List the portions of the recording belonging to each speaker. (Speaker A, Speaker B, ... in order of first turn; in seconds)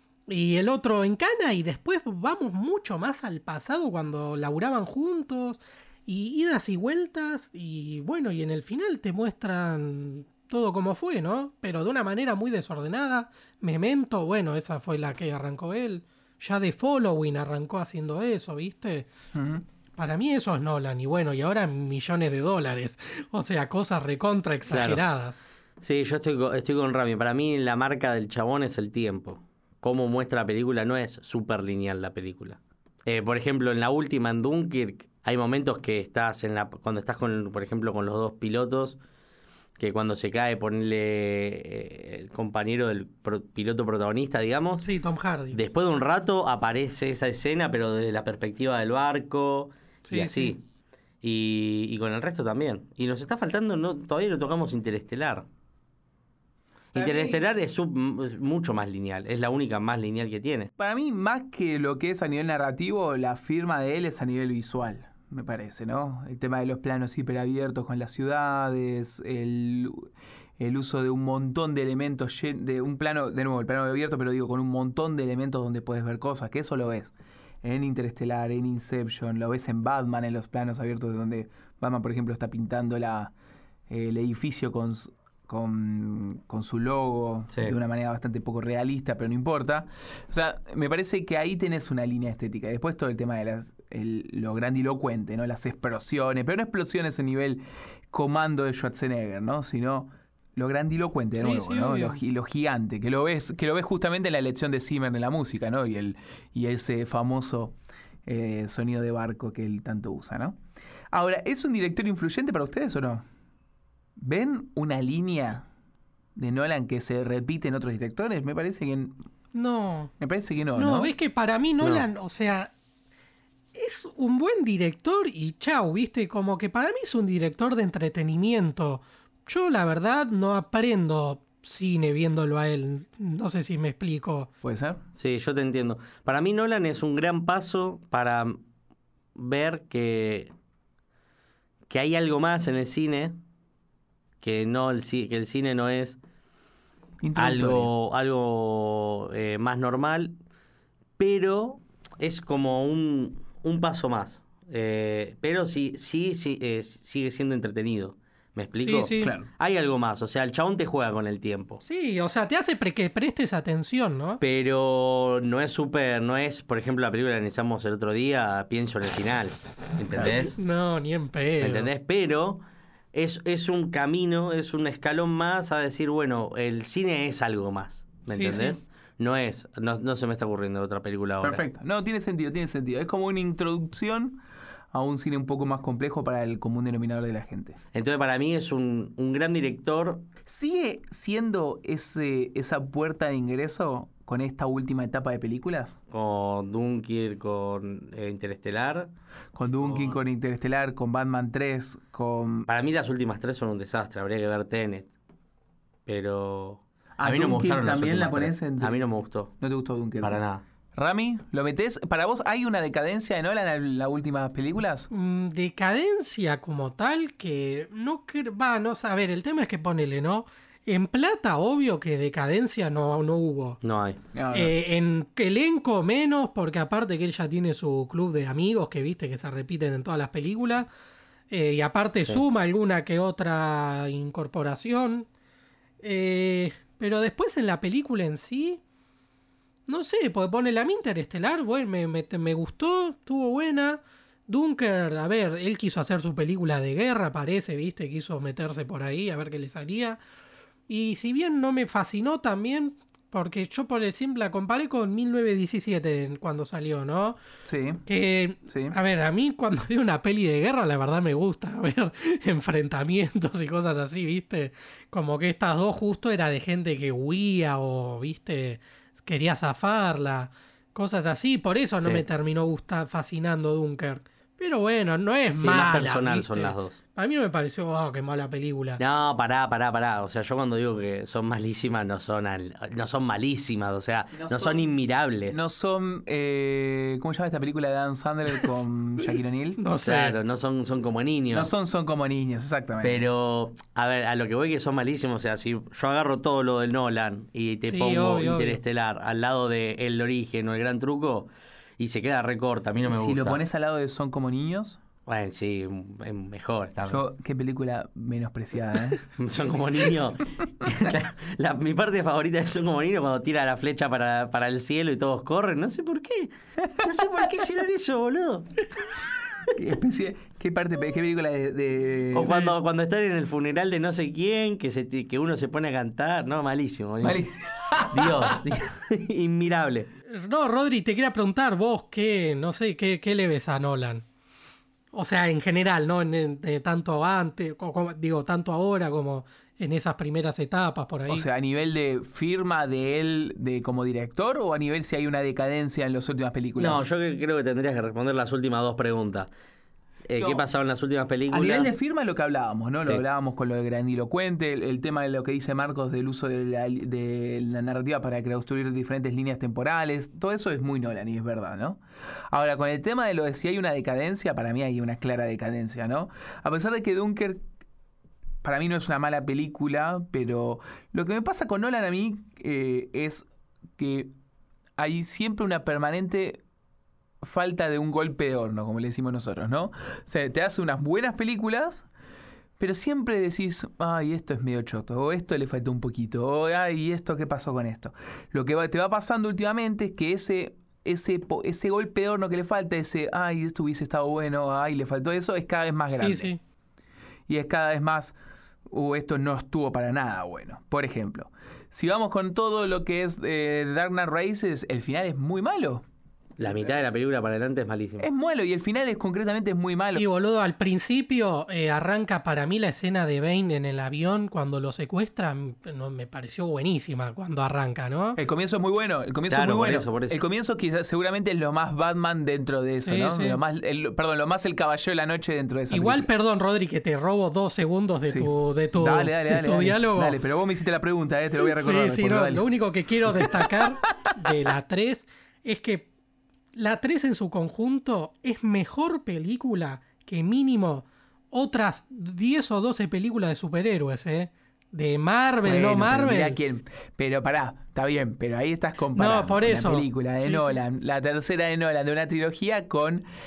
Speaker A: 0.3-19.1, 20.0-25.4, 44.8-45.6, 50.0-50.5, 101.3-102.2, 119.5-120.1, 120.7-122.7, 123.7-134.5, 158.8-159.3, 161.8-164.4, 170.2-171.9, 178.3-178.8, 215.1-223.8, 224.5-230.9, 231.5-235.3, 236.0-238.8, 239.9-250.2, 250.9-257.4, 258.1-279.0, 289.8-290.4, 297.9-298.8, 330.3-334.2, 335.1-341.4, 396.2-396.6, 410.1-418.4, 423.0-423.6, 425.9-430.4, 431.6-436.1, 436.7-446.6, 449.1-450.8
Speaker B: 19.3-19.6, 56.9-57.4, 60.8-83.3, 83.9-110.6, 111.1-113.2, 114.2-115.7, 116.3-119.2, 120.2-121.1, 134.6-135.0, 147.2-147.9, 159.2-159.5, 181.4-184.4, 184.9-187.8, 190.4-196.0, 199.5-202.7, 207.2-209.0, 209.6-210.4, 210.9-215.1, 224.3-224.7, 257.6-258.0, 258.7-258.9, 284.3-284.9, 285.5-289.8, 291.5-293.2, 303.1-305.0, 307.1-309.2, 319.7-322.6, 327.2-328.6, 341.3-347.0, 350.4-350.6, 351.5-367.6, 368.6-373.4, 374.0-374.3, 375.0-376.6, 377.4-382.1, 382.8-396.5, 397.5-398.4, 398.9-406.0, 408.2-410.2, 418.4-426.3, 428.3-432.7, 433.2-433.9, 445.6-453.2
Speaker C: 24.7-25.0, 25.8-39.0, 39.8-44.9, 45.5-50.6, 51.2-55.5, 56.9-60.7, 135.1-138.6, 139.3-140.5, 141.9-143.3, 144.4-146.2, 147.3-150.3, 151.2-161.8, 164.4-170.6, 171.6-172.6, 173.1-181.6, 187.9-190.3, 196.1-199.1, 199.8-200.2, 202.7-205.1, 206.1-209.5, 210.2-210.6, 223.8-224.2, 275.6-277.0, 279.0-285.6, 290.0-291.7, 293.0-303.6, 305.2-307.2, 309.3-318.9, 322.3-327.4, 328.1-330.1, 346.8-349.5, 350.2-351.9, 406.6-408.3, 419.5-420.4